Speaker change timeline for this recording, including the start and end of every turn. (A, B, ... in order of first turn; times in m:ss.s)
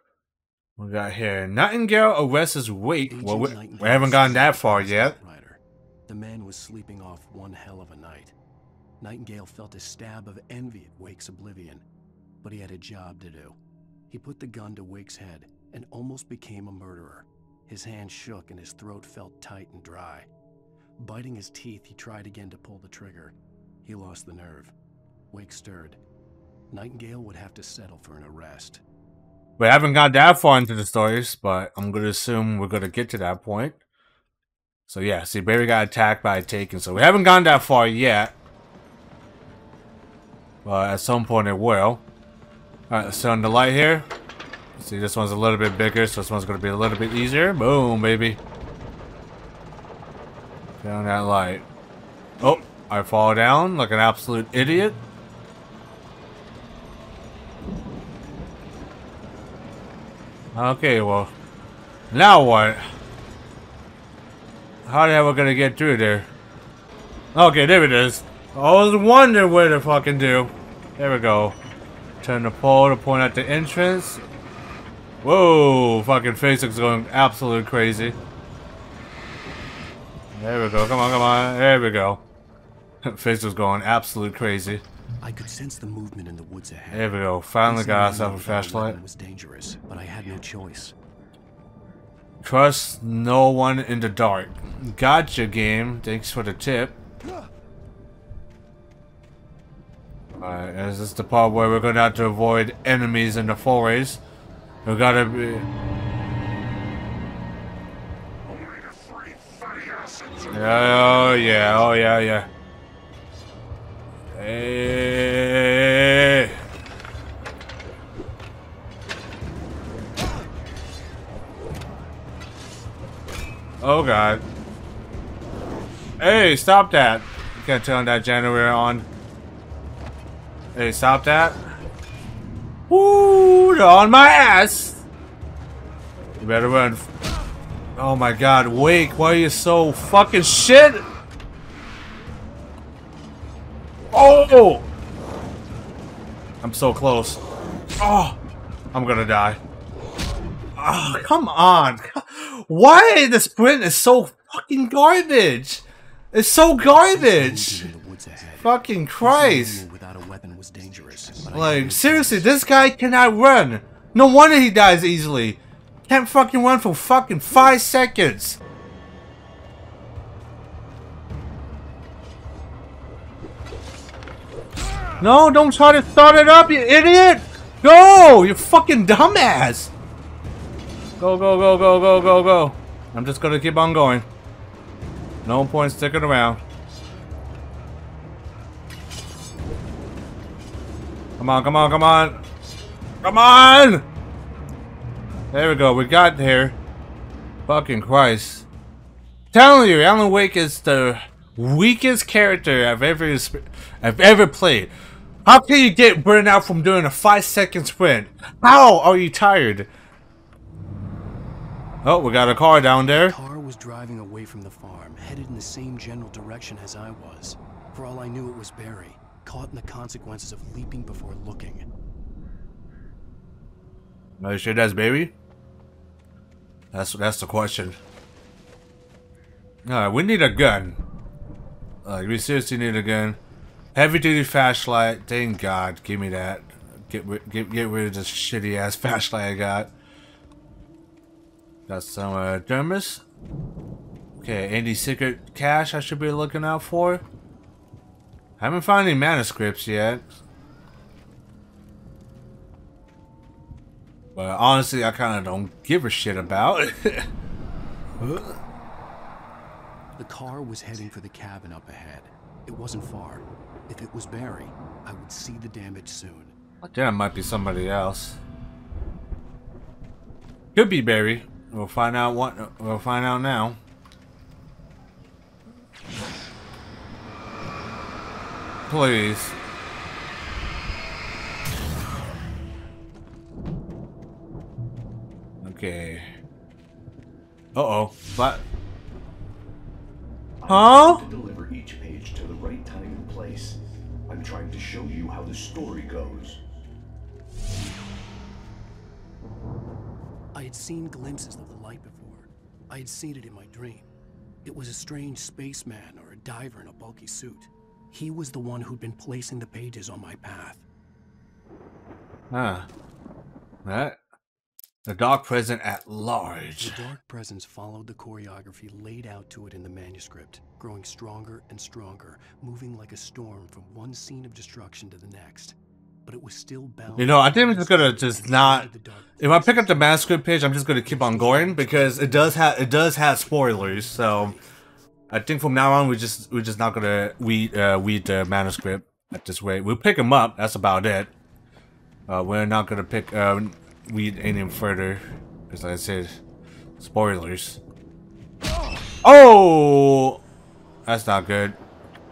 0:00.8-0:05.2 A
0:03.0-0:08.3 B
0:09.0-0:11.8 B
0:12.4-0:13.6 B
0:14.1-0:20.3 B
0:21.0-0:24.7 B
0:25.3-0:26.0 B
0:26.7-0:28.8 B
0:29.6-0:33.8 A
0:34.9-0:38.3 A
0:40.6-0:42.0 A
0:42.9-0:44.0 A
0:44.8-0:48.4 A
0:50.8-0:51.6 A
0:52.4-0:55.0 A
1:00.5-1:01.3 A
1:02.1-1:02.8 A
1:04.8-1:06.3 A
1:07.3-1:11.6 A
1:12.2-1:14.2 A
1:15.2-1:18.2 A
1:20.3-1:22.2 A
1:23.0-1:24.8 A
1:25.2-1:27.1 B
1:26.9-1:29.0 A
1:27.6-1:30.9 B
1:32.4-1:37.0 A
1:40.4-1:44.2 A
1:44.8-1:45.6 A
1:50.5-1:52.5 A
1:54.3-1:56.6 A
2:03.8-2:04.4 A
2:06.2-2:09.0 A
2:10.7-2:11.6 A
2:12.9-2:15.0 A
2:16.4-2:17.1 A
2:18.0-2:21.0 A
2:24.1-2:24.9 A
2:26.6-2:27.4 A
2:28.0-2:28.4 A
2:28.9-2:29.6 A
2:30.8-2:37.9 A
2:36.9-2:42.5 B
2:38.6-2:39.8 A
2:41.5-2:48.6 A
2:55.2-2:59.9 A
3:01.2-3:04.3 A
3:05.4-3:06.6 A
3:11.4-3:12.4 A
3:13.2-3:14.0 A
3:15.5-3:16.8 A
3:17.6-3:18.6 A
3:19.5-3:24.9 A
3:25.4-3:29.9 A
3:32.0-3:33.4 A
3:33.2-3:41.8 B
3:44.4-3:45.3 A
3:46.9-3:48.0 A
3:49.8-3:51.0 A
3:52.0-3:53.4 A
3:53.9-3:59.9 A
4:01.9-4:03.2 A
4:04.4-4:07.2 A
4:08.6-4:10.3 A
4:14.3-4:17.3 A
4:18.2-4:18.6 A
4:20.2-4:26.5 B
4:26.8-4:28.4 A
4:30.7-4:33.8 A
4:38.9-4:39.6 A
4:45.6-4:46.3 A
4:47.7-4:48.6 A
4:50.6-4:56.6 C
4:50.7-4:51.2 A
5:00.5-5:04.1 B
5:04.6-5:10.8 B
5:12.5-5:12.9 A
5:13.8-5:14.2 A
5:15.0-5:17.0 A
5:16.8-5:30.1 B
5:27.2-5:34.5 A
5:31.0-5:32.5 B
5:34.2-5:34.6 B
5:35.3-5:41.3 A
5:42.3-5:46.4 A
5:47.0-5:47.8 A
5:49.2-5:50.4 A
5:51.0-5:51.8 A